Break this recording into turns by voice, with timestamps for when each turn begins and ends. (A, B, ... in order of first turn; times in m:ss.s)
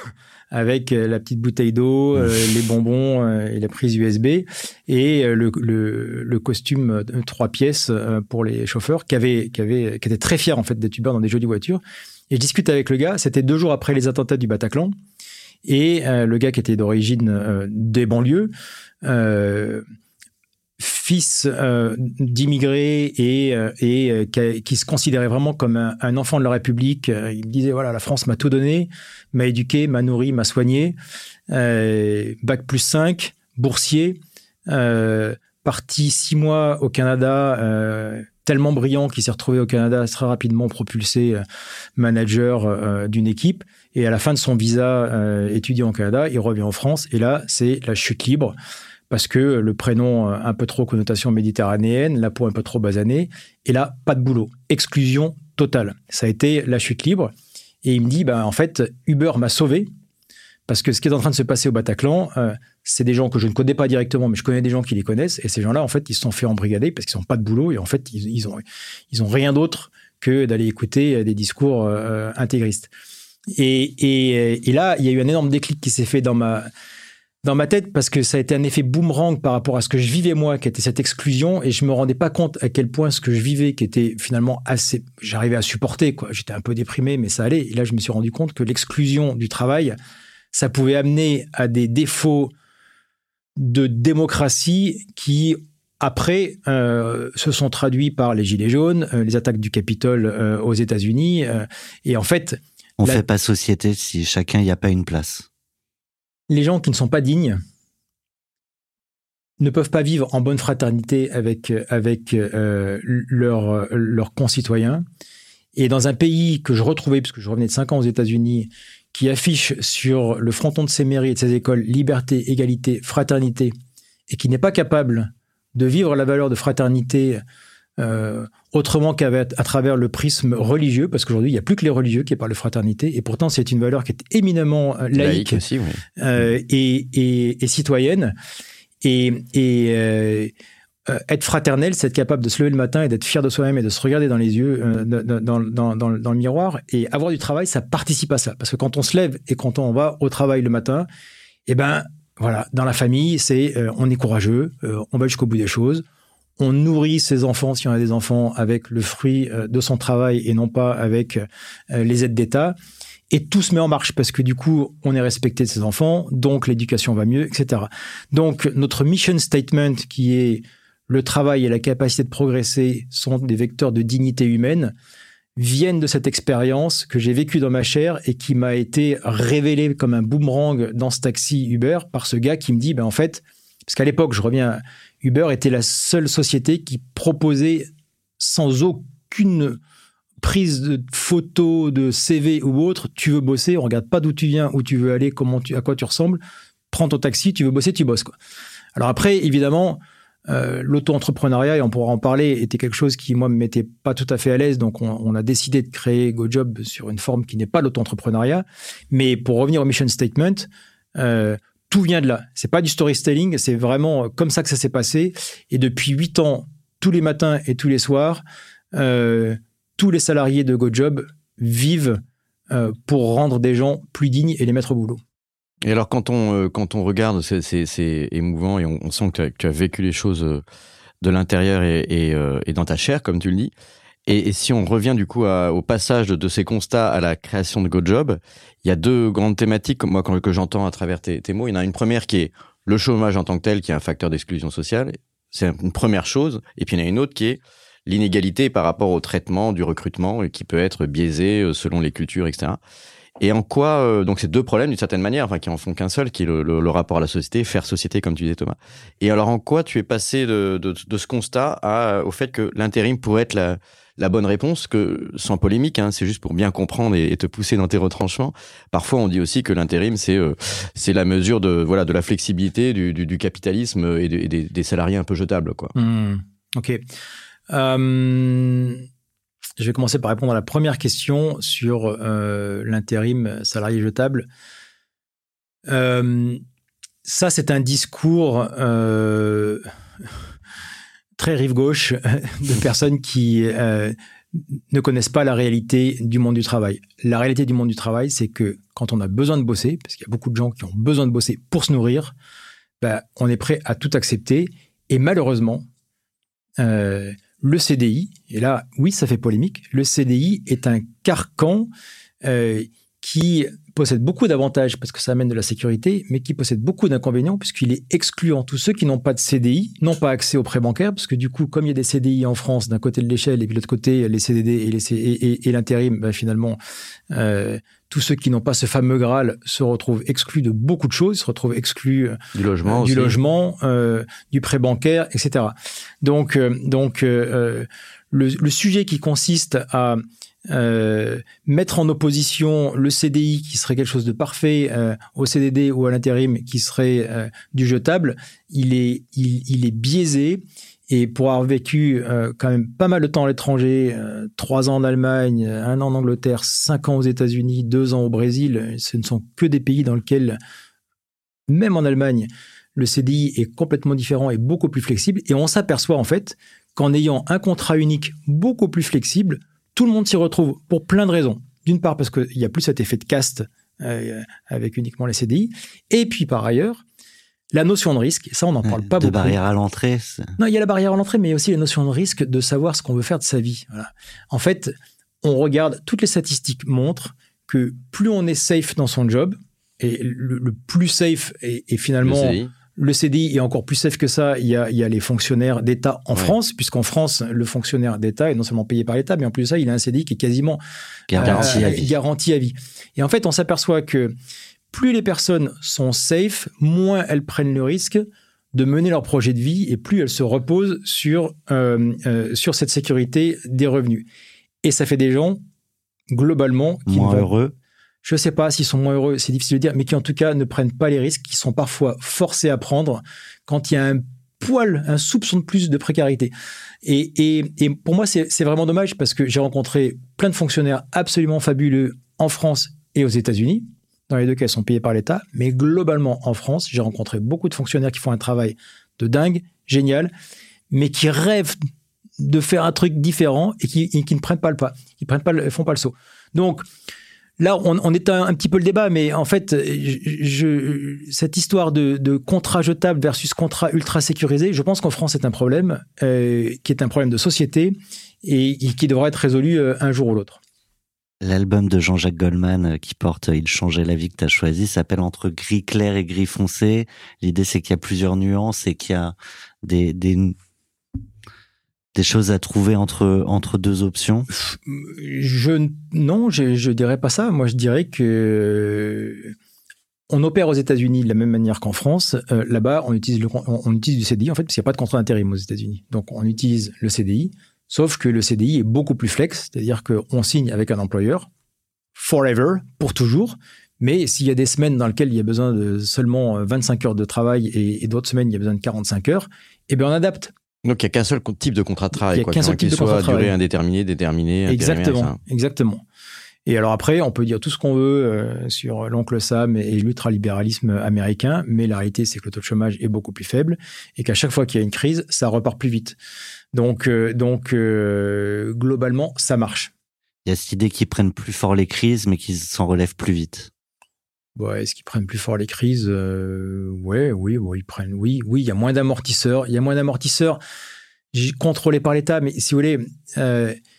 0:00.5-0:14.9 A
0:15.7-0:18.5 A
0:19.0-0:19.8 A
0:20.8-0:31.0 A
0:31.5-0:41.4 A
0:42.0-0:48.6 A
0:49.1-0:57.3 A
0:57.8-0:59.9 A
1:00.7-1:12.9 A
1:13.6-1:16.7 A
1:17.4-1:30.0 A
1:30.5-1:32.5 A
1:33.6-1:43.2 A
1:43.0-1:45.5 B
1:46.5-1:47.6 A
1:49.6-1:55.0 A
1:55.8-2:03.7 A
2:04.3-2:07.4 A
2:08.0-2:15.6 A
2:15.1-2:16.0 C
2:16.2-2:18.4 A
2:19.0-2:20.5 A
2:21.1-2:31.1 A
2:31.7-2:36.0 A
2:36.6-2:42.8 A
2:43.3-2:54.9 A
2:55.6-3:07.9 A
3:08.4-3:09.8 A
3:10.4-3:18.3 A
3:19.0-3:38.4 A
3:38.9-3:45.2 A
3:45.8-3:50.6 C
3:51.2-3:53.7 C
3:54.3-4:12.8 C
4:13.4-4:35.9 C
4:36.0-4:37.0 A
4:37.7-4:39.0 A
4:39.8-4:44.5 A
4:45.9-4:46.6 A
4:47.2-4:49.8 A
4:51.4-4:54.2 A
4:54.8-5:02.4 A
5:03.0-5:05.8 A
5:06.8-5:11.9 A
5:12.4-5:26.8 A
5:27.3-6:00.6 A
5:32.6-5:33.4 C
6:01.7-6:17.0 A
6:17.7-6:19.6 A
6:18.9-6:20.6 B
6:20.6-6:40.8 A
6:32.2-6:32.7 C
6:41.3-6:42.1 B
6:41.4-6:44.4 A
6:41.4-6:41.9 C
6:44.9-6:54.3 A
6:54.8-6:55.6 A
6:56.3-6:57.5 A
6:57.1-6:57.8 B
6:58.2-7:06.5 A
7:07.0-7:20.3 A
7:20.9-7:21.8 A
7:22.4-7:26.8 A
7:27.6-7:40.6 A
7:41.4-7:50.6 B
7:52.2-7:54.5 B
7:54.5-7:59.6 A
8:00.3-8:11.5 A
8:12.2-8:20.5 A
8:20.8-8:25.4 C
8:22.2-8:23.6 A
8:24.7-8:26.0 A
8:26.7-8:36.2 A
8:36.7-8:39.9 A
8:40.4-8:43.7 B
8:44.6-8:50.6 A
8:51.3-8:53.8 A